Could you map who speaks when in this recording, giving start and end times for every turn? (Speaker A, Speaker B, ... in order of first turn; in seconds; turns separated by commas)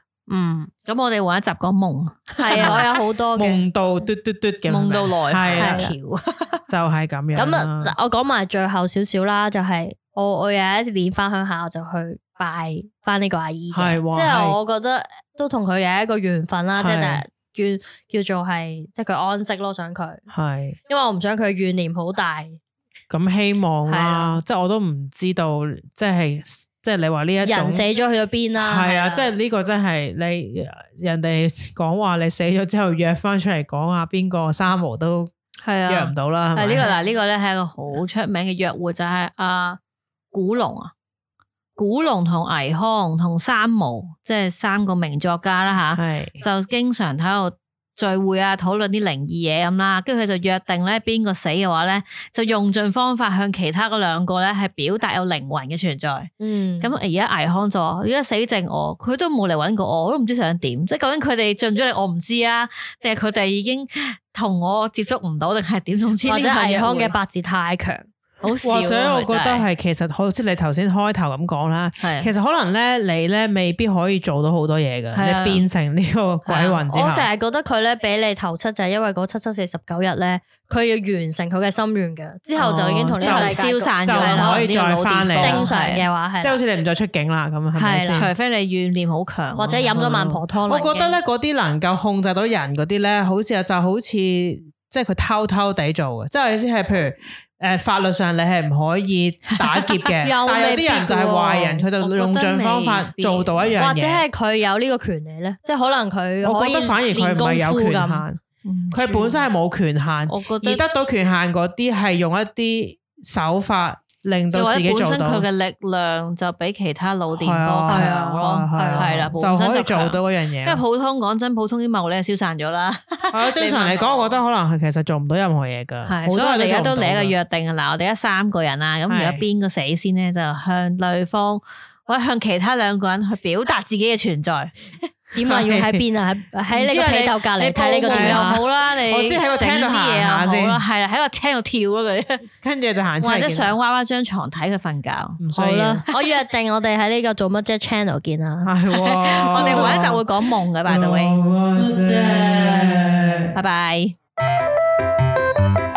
Speaker A: 0.3-0.7, Speaker B: 0.8-2.9, Speaker A: 2.4-3.6, Speaker C: 2.5-6.0, Speaker B: 4.7-6.6, Speaker A: 5.6-5.9, Speaker C: 6.7-7.9, Speaker A: 7.3-20.2, Speaker C: 13.7-14.6, Speaker C: 16.8-17.2, Speaker C: 20.3-20.8, Speaker A: 20.9-22.6, Speaker C: 23.1-27.8, Speaker A: 23.9-24.4, Speaker A: 27.4-29.3, Speaker C: 28.6-35.3, Speaker B: 35.6-39.8, Speaker C: 35.9-36.8, Speaker B: 40.3-40.9, Speaker B: 41.8-67.2, Speaker C: 45.9-46.4, Speaker A: 56.4-56.9, Speaker A: 66.2-68.1, Speaker B: 68.4-69.7, Speaker C: 68.6-77.3, Speaker B: 72.0-72.3, Speaker B: 75.1-75.6, Speaker A: 76.5-84.6, Speaker C: 82.6-85.7, Speaker B: 82.6-86.0, Speaker A: 85.4-86.6, Speaker C: 86.4-88.3, Speaker A: 87.7-88.3, Speaker B: 88.1-90.0, Speaker A: 89.5-91.2, Speaker C: 89.9-104.2, Speaker B: 99.5-100.1, Speaker A: 100.2-101.8, Speaker B: 102.0-103.8, Speaker A: 103.8-108.2, Speaker C: 106.4-115.5, Speaker B: 108.6-109.4, Speaker B: 110.3-110.8, Speaker B: 114.5-124.4, Speaker C: 117.3-120.8, Speaker A: 117.9-119.2, Speaker C: 123.3-127.3, Speaker B: 126.0-134.9, Speaker C: 129.1-129.4, Speaker A: 135.3-138.6, Speaker C: 135.4-136.0, Speaker B: 136.7-142.5, Speaker C: 138.0-140.8, Speaker C: 142.6-143.7, Speaker B: 143.2-145.4, Speaker C: 145.4-146.1, Speaker A: 145.5-148.7, Speaker C: 148.6-153.5, Speaker B: 148.9-151.4, Speaker A: 151.9-153.1, Speaker B: 153.5-154.1